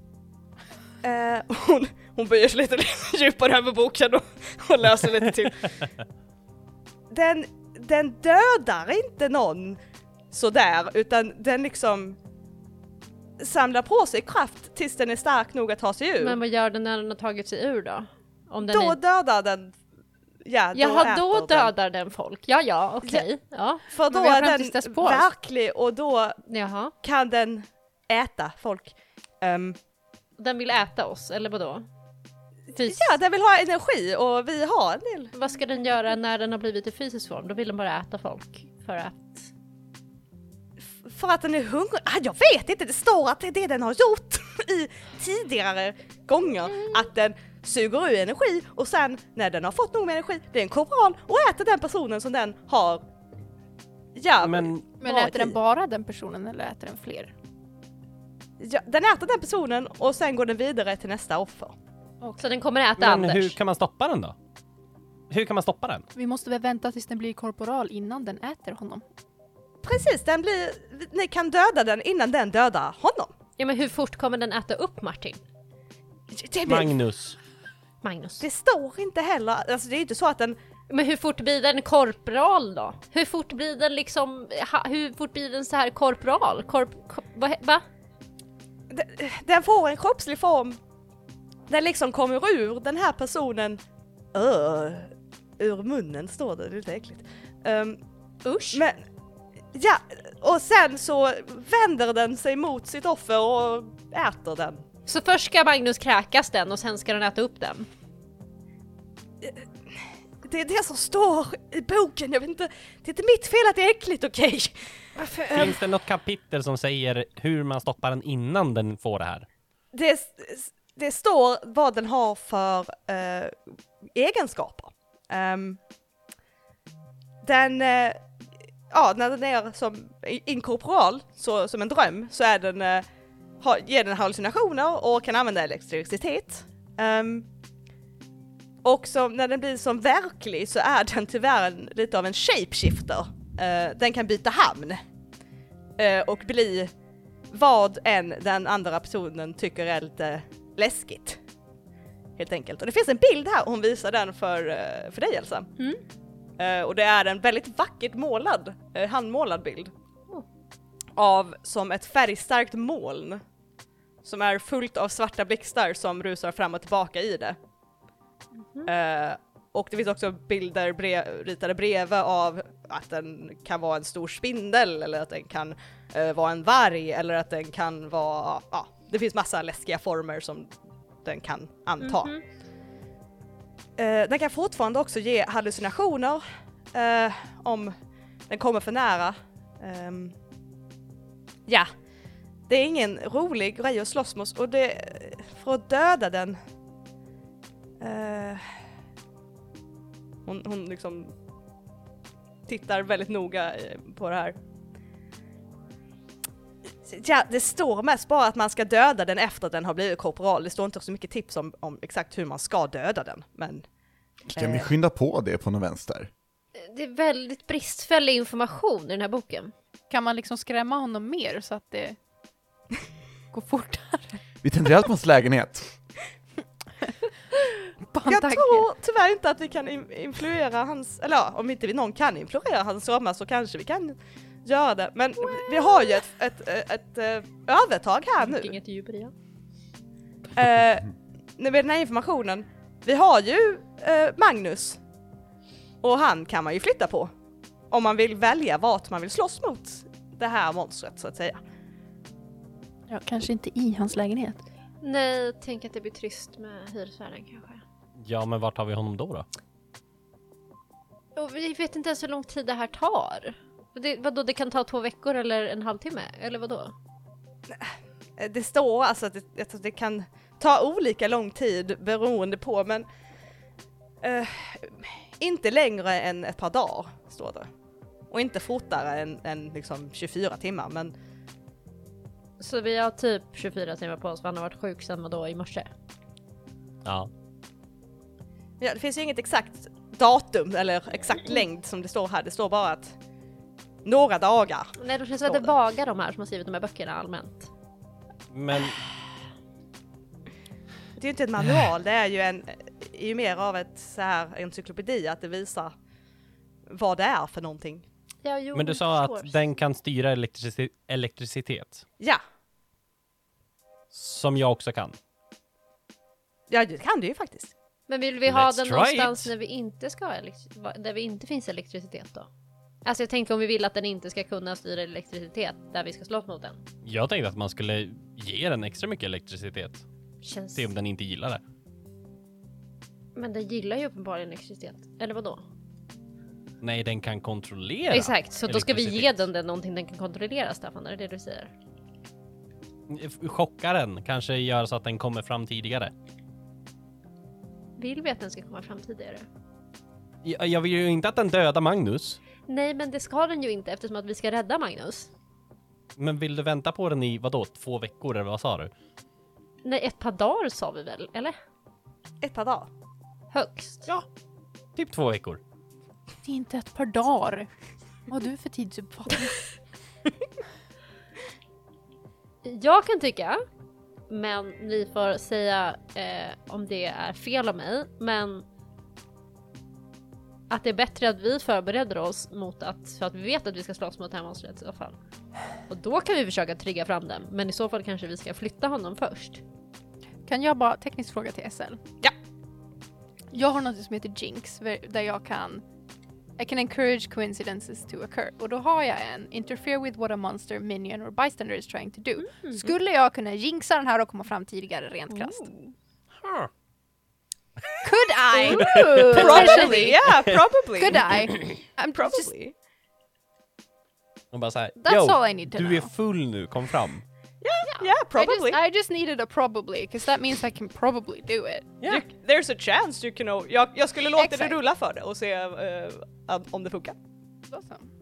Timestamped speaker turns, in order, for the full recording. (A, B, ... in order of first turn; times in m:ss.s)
0:01.0-0:05.8 A
0:07.1-0:09.8 A
0:10.3-0:12.2 A
0:13.4-0:16.4 A
0:16.2-0:19.0 B
0:18.7-0:19.8 A
0:20.4-0:21.7 A
0:20.7-0:23.8 B
0:23.9-0:26.4 A
0:24.1-0:25.3 C
0:26.5-0:26.9 B
0:27.0-0:29.8 A
0:30.4-0:31.9 B
0:32.8-0:33.0 B
0:32.8-0:35.3 A
0:35.3-0:39.5 B
0:41.0-0:53.0 A
0:54.2-0:55.6 A
0:54.4-0:54.8 D
0:55.0-0:57.3 C
0:58.6-1:01.8 A
1:02.4-1:03.6 B
1:03.0-1:04.4 D
1:05.3-1:06.0 D
1:06.2-1:09.0 C
1:09.8-1:13.3 A
1:13.6-1:15.4 B
1:16.3-1:16.9 A
1:16.6-1:17.4 D
1:18.0-1:18.4 B
1:18.4-1:20.6 A
1:20.9-1:27.8 B
1:28.9-1:30.8 A
1:31.7-1:33.8 A
1:34.3-1:38.0 A
1:38.4-1:38.8 B
1:38.7-1:39.0 A
1:39.7-1:44.8 A
1:45.1-1:47.9 B
1:49.4-1:55.8 A
1:55.5-1:59.5 D
1:59.9-2:03.6 A
2:04.1-2:05.8 A
2:07.4-2:08.2 A
2:08.9-2:13.1 A
2:13.6-2:17.5 A
2:18.8-2:25.0 A
2:26.0-2:26.9 A
2:27.5-2:31.4 A
2:32.4-2:35.7 A
2:36.6-2:39.9 A
2:41.2-2:43.4 A
2:44.2-2:47.6 A
2:48.6-2:48.9 B
2:48.9-3:00.7 A
3:01.2-3:02.3 A
3:02.0-3:02.4 B
3:04.0-3:06.4 A
3:06.9-3:07.9 A
3:08.5-3:10.4 A
3:12.7-3:16.6 A
3:18.0-3:18.6 A
3:20.4-3:21.3 A
3:22.7-3:24.6 A
3:27.1-3:33.8 A
3:34.5-3:36.3 E
3:34.5-3:34.9 A
3:36.8-3:39.7 B
3:40.1-3:42.2 C
3:43.5-3:44.4 C
3:44.6-3:45.9 E
3:48.1-3:48.9 C
3:48.3-3:58.8 A
3:58.4-3:59.3 B
4:00.5-4:05.0 A
4:06.0-4:07.3 A
4:07.9-4:11.6 A
4:13.1-4:14.6 C
4:15.0-4:17.8 B
4:18.2-4:19.5 D
4:21.4-4:26.9 B
4:27.7-4:33.1 A
4:34.2-4:37.7 A
4:38.3-4:41.1 A
4:42.6-4:45.9 B
4:47.0-4:47.3 D
4:48.8-4:53.2 A
4:54.0-4:55.7 A
4:55.0-4:57.7 B
4:58.5-4:59.0 D
5:01.2-5:05.9 A
5:06.9-5:08.0 A
5:08.4-5:09.6 B
5:08.8-5:12.0 D
5:14.1-5:15.2 D
5:16.7-5:17.7 A
5:18.1-5:22.5 B
5:18.5-5:19.5 D
5:23.0-5:26.8 B
5:27.0-5:30.0 D
5:30.4-5:30.9 B
5:30.8-5:31.6 D
5:33.4-5:35.6 B
5:36.8-5:39.5 D
5:38.1-5:41.7 B
5:43.1-5:46.1 D
5:48.0-5:49.5 B
5:50.4-5:52.4 D
5:52.7-5:55.3 B
5:56.2-5:58.9 D
5:59.8-6:01.6 B
6:02.4-6:02.9 A
6:03.5-6:04.1 B
6:05.0-6:05.6 D
6:06.4-6:07.7 C
6:08.3-6:09.7 C
6:12.6-6:13.6 B
6:14.3-6:18.7 B
6:20.7-6:25.2 B
6:25.9-6:29.6 B
6:30.4-6:32.0 C
6:33.5-6:35.8 C
6:36.6-6:45.7 C
6:42.4-6:42.8 B
6:45.3-6:45.9 B
6:46.4-6:46.7 D
6:48.0-6:50.3 C
6:48.7-6:49.6 D
6:48.8-6:51.3 A
6:48.9-6:50.0 B
6:50.3-6:50.6 D
6:51.0-6:52.5 C
6:52.2-6:52.7 A
6:54.5-6:57.2 D
6:55.0-6:56.1 C
6:57.6-6:58.8 A
6:58.0-7:01.9 C
7:02.1-7:07.2 A
7:04.4-7:04.8 C
7:07.7-7:08.1 C